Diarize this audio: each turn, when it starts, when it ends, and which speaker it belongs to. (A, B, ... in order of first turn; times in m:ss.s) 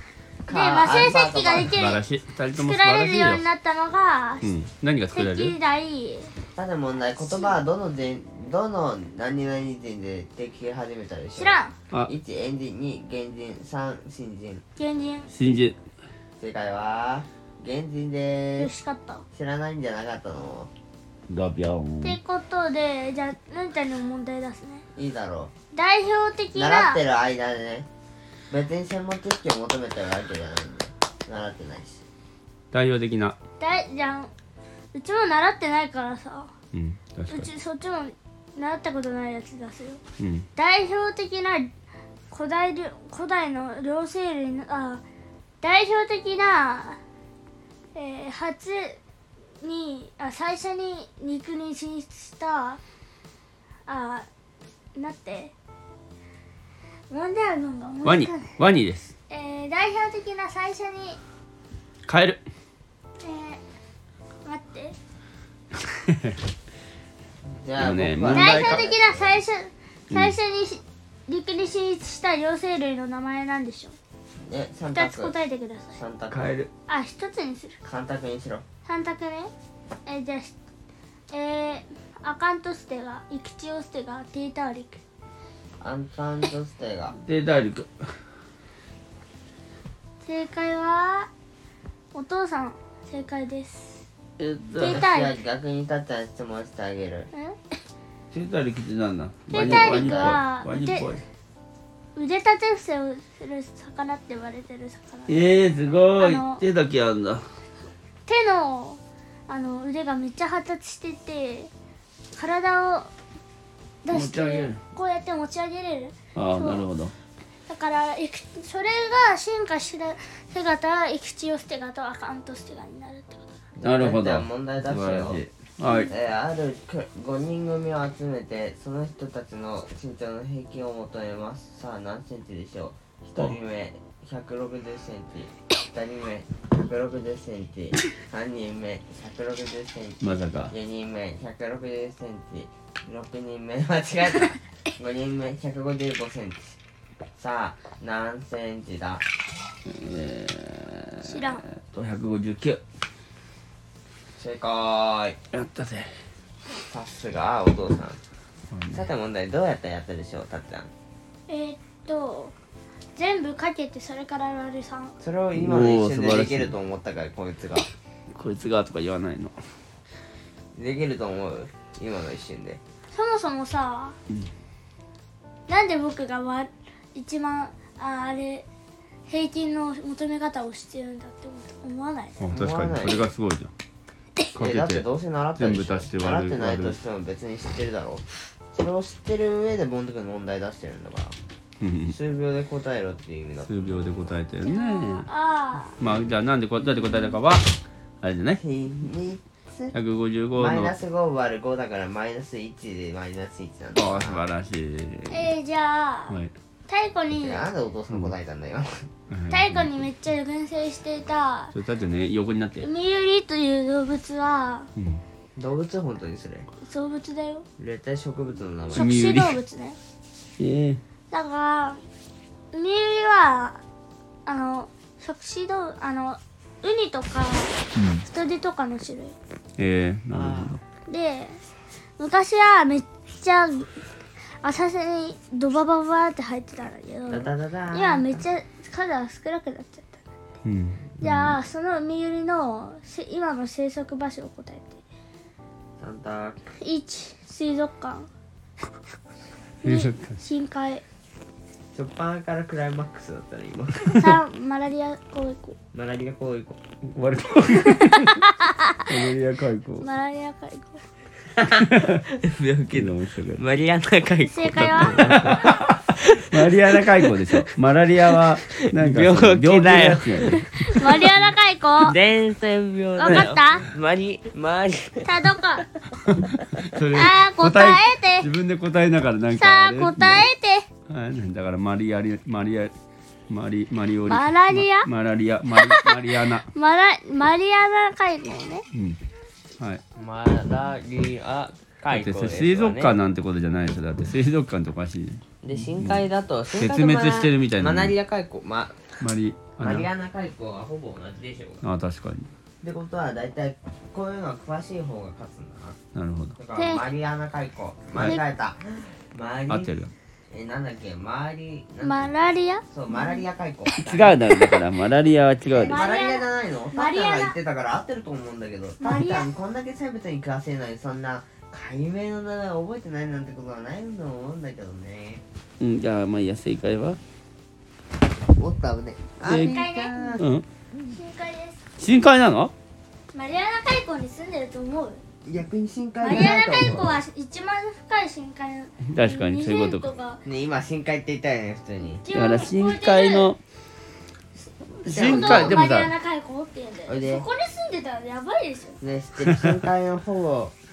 0:00.5-0:01.8 A
0:00.5-0:02.0 B
0:01.6-0:03.4 C
0:02.6-0:04.5 B
0:04.4-0:05.5 C
0:05.1-0:06.3 B
0:06.6-0:14.6 A
0:07.2-0:07.6 B
0:11.3-0:11.7 B
0:14.8-0:15.3 B
0:15.3-0:15.8 C
0:16.4-0:18.7 A
0:18.6-0:19.2 B
0:19.3-0:20.7 A
0:21.3-0:22.2 C
0:22.0-0:24.8 B
0:25.0-0:25.5 A
0:25.7-0:27.0 B
0:26.6-0:27.9 A
0:28.5-0:32.0 A
0:32.7-0:33.4 C
0:33.6-0:34.3 B
0:34.9-0:36.5 B
0:36.7-0:37.5 C
0:37.3-0:40.0 B
0:40.2-0:40.5 C
0:40.6-0:41.7 B
0:42.3-0:45.0 B
0:45.6-0:47.0 B
0:48.0-0:49.0 B
0:49.6-0:52.8 B
0:53.9-0:54.3 B
0:55.0-0:55.5 B
0:57.1-0:58.6 B
0:58.0-0:59.1 C
0:59.3-1:01.2 B
1:02.1-1:02.4 C
1:03.2-1:03.6 B
1:04.4-1:05.0 B
1:05.9-1:06.4 C
1:07.4-1:09.4 A
1:07.8-1:08.8 C
1:08.3-1:14.0 B
1:10.1-1:10.4 C
1:14.4-1:15.4 A
1:14.9-1:16.0 B
1:16.0-1:16.6 A
1:16.3-1:16.7 C
1:16.9-1:17.8 B
1:17.8-1:18.6 A
1:18.8-1:19.5 B
1:20.1-1:20.6 B
1:21.3-1:25.0 B
1:25.8-1:27.2 A
1:27.2-1:28.1 C
1:30.2-1:31.3 B
1:32.1-1:34.0 B
1:34.4-1:35.0 C
1:34.8-1:35.4 B
1:34.8-1:37.3 A
1:37.3-1:37.6 B
1:38.3-1:41.2 C
1:39.5-1:40.4 A
1:39.5-1:41.2 B
1:42.2-1:45.6 B
1:45.3-1:47.4 C
1:46.2-1:46.6 B
1:48.3-1:51.7 B
1:52.4-1:53.1 B
1:54.0-1:56.8 B
1:54.1-1:54.8 C
1:56.4-1:57.1 C
1:57.7-2:03.5 B
2:03.8-2:05.4 A
2:03.8-2:06.1 C
2:05.8-2:06.1 B
2:06.1-2:26.8 A
2:20.2-2:20.7 C
2:27.4-2:29.2 A
2:29.9-2:32.8 C
2:31.2-2:31.7 B
2:34.4-2:35.4 A
2:35.5-2:36.1 C
2:36.8-2:38.2 A
2:38.7-2:39.0 C
2:38.9-2:40.9 A
2:41.5-2:42.6 B
2:43.2-2:45.2 B
2:45.2-2:47.9 A
2:45.6-2:46.8 C
2:48.3-2:49.6 C
2:50.8-2:52.8 A
2:53.1-2:54.2 B
2:55.7-2:58.7 B
2:59.3-3:02.4 B
3:02.4-3:03.7 C
3:02.5-3:03.3 A
3:04.5-3:05.0 C
3:04.6-3:11.4 A
3:05.6-3:07.0 C
3:11.8-3:12.2 C
3:12.1-3:14.3 A
3:13.7-3:15.3 C
3:14.6-3:16.0 B
3:16.0-3:17.7 C
3:18.2-3:18.6 C
3:18.6-3:20.0 A
3:19.9-3:21.0 C
3:20.6-3:24.4 A
3:24.0-3:25.5 C
3:25.3-3:26.4 B
3:26.9-3:27.7 B
3:27.3-3:29.1 A
3:29.3-3:30.0 C
3:29.5-3:31.8 B
3:31.7-3:32.9 C
3:32.8-3:34.9 B
3:35.0-3:35.2 C
3:35.6-3:36.7 A
3:36.8-3:37.7 B
3:37.8-3:39.2 A
3:38.9-3:40.0 B
3:38.9-3:39.6 C
3:40.6-3:41.0 C
3:41.3-3:42.0 B
3:42.7-3:43.8 B
3:44.5-3:49.4 B
3:48.0-3:48.2 C
3:49.8-3:50.8 C
3:50.3-3:50.8 A
3:51.1-3:51.6 B
3:52.2-3:53.9 B
3:54.6-4:00.2 B
3:57.3-3:58.5 A
4:00.6-4:01.6 C
4:01.2-4:05.0 B
4:06.0-4:06.6 A
4:06.8-4:08.3 B
4:09.8-4:10.4 C
4:09.8-4:11.0 B
4:11.9-4:14.3 A
4:14.1-4:15.8 B
4:15.9-4:16.8 A
4:17.1-4:18.5 C
4:17.8-4:19.1 B
4:19.0-4:20.1 C
4:20.0-4:21.0 B
4:21.6-4:27.7 A
4:21.7-4:22.3 C
4:22.9-4:23.6 C
4:24.4-4:25.5 B
4:24.8-4:30.7 C
4:28.3-4:31.4 A
4:30.8-4:32.2 B
4:32.0-4:35.6 A
4:33.2-4:33.9 B
4:35.2-4:35.9 B
4:36.3-4:40.5 C
4:36.4-4:36.9 A
4:37.1-4:38.5 B
4:39.5-4:40.9 B
4:41.1-4:42.9 C
4:43.5-4:46.7 C
4:44.3-4:45.1 B
4:45.7-4:48.8 B
4:48.9-4:49.2 C
4:50.2-4:53.2 A
4:52.1-4:58.1 C
4:55.6-4:59.3 A
4:59.2-5:00.1 C
4:59.8-5:01.8 A
5:01.8-5:02.5 C
5:02.8-5:06.0 A
5:06.2-5:06.6 C
5:06.6-5:10.0 A
5:06.8-5:07.0 B
5:08.1-5:08.4 C
5:09.7-5:10.1 C
5:10.5-5:12.4 A
5:12.0-5:13.4 B
5:12.9-5:14.4 A
5:14.0-5:16.0 C
5:15.7-5:25.4 A
5:15.8-5:17.6 B
5:19.0-5:19.5 B
5:25.8-5:27.2 C
5:28.6-5:30.4 A
5:29.5-5:29.8 C
5:29.5-5:30.4 B
5:30.4-5:30.6 C
5:31.0-5:31.8 B
5:32.0-5:32.7 C
5:33.3-5:35.2 B
5:35.4-5:37.2 A
5:36.2-5:40.4 B
5:39.1-5:40.1 C
5:40.5-5:42.2 A
5:42.2-5:43.5 B
5:42.3-5:43.6 C
5:45.0-5:45.8 A
5:45.0-5:46.1 C
5:45.1-5:49.0 B
5:47.1-5:47.5 A
5:49.0-5:50.7 A
5:49.4-5:49.8 C